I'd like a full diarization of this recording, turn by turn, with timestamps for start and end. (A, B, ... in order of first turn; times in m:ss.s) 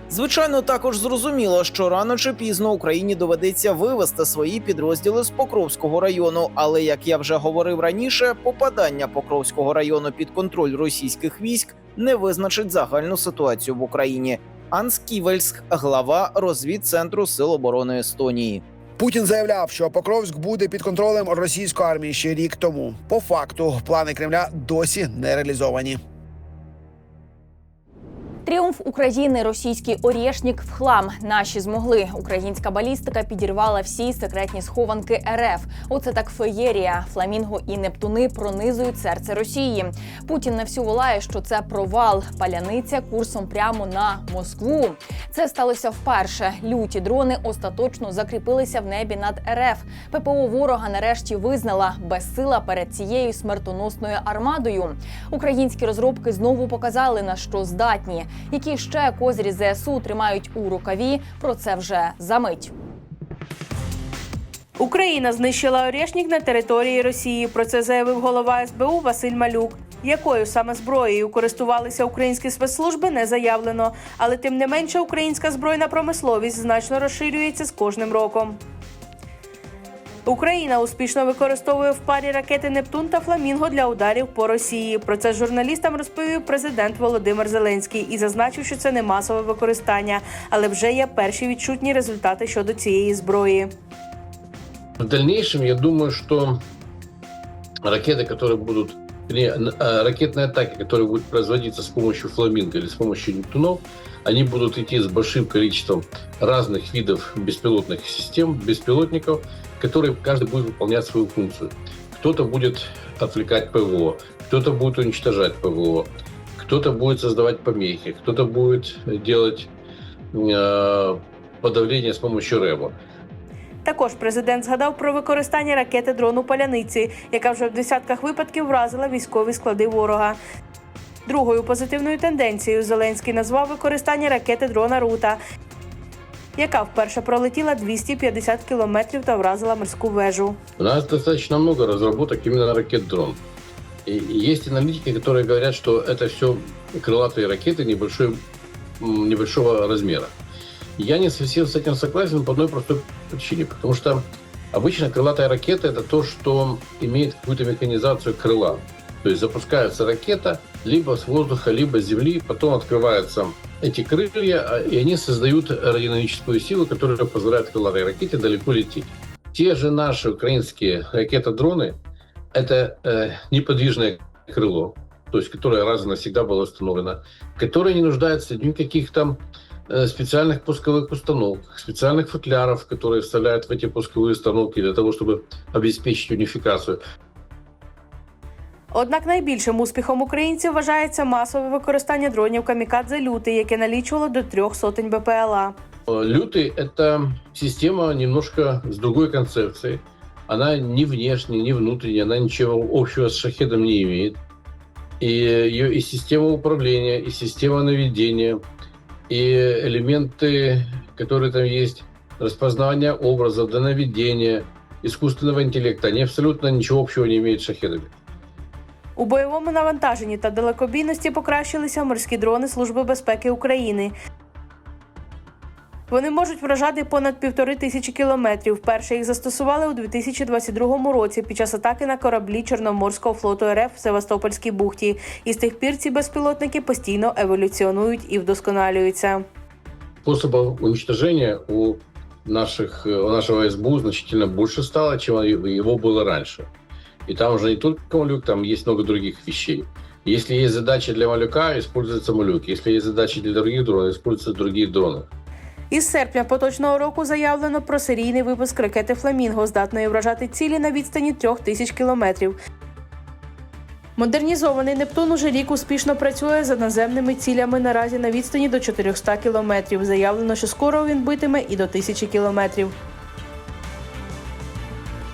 0:00.1-0:18.6 A
0:19.0-0:26.0 B
0:28.4-1:02.7 C
1:04.8-1:18.6 D
1:20.3-1:33.7 D
1:35.0-1:36.6 E
1:37.8-1:59.7 E
2:00.3-2:02.9 E
2:03.8-2:10.4 D
2:11.3-2:15.4 D
2:16.6-2:20.6 D
2:20.8-2:23.4 E
2:24.1-2:28.4 E
2:29.0-2:30.3 E
2:31.0-2:52.0 E
2:52.5-3:07.0 E
3:08.9-3:15.7 D
3:16.1-3:24.4 E
3:25.2-3:28.6 E
3:29.3-3:38.1 E
3:39.2-3:44.1 D
3:46.1-3:59.4 D
4:00.2-4:06.7 E
4:07.3-4:15.3 E
4:15.9-4:22.6 D
4:24.2-4:32.9 D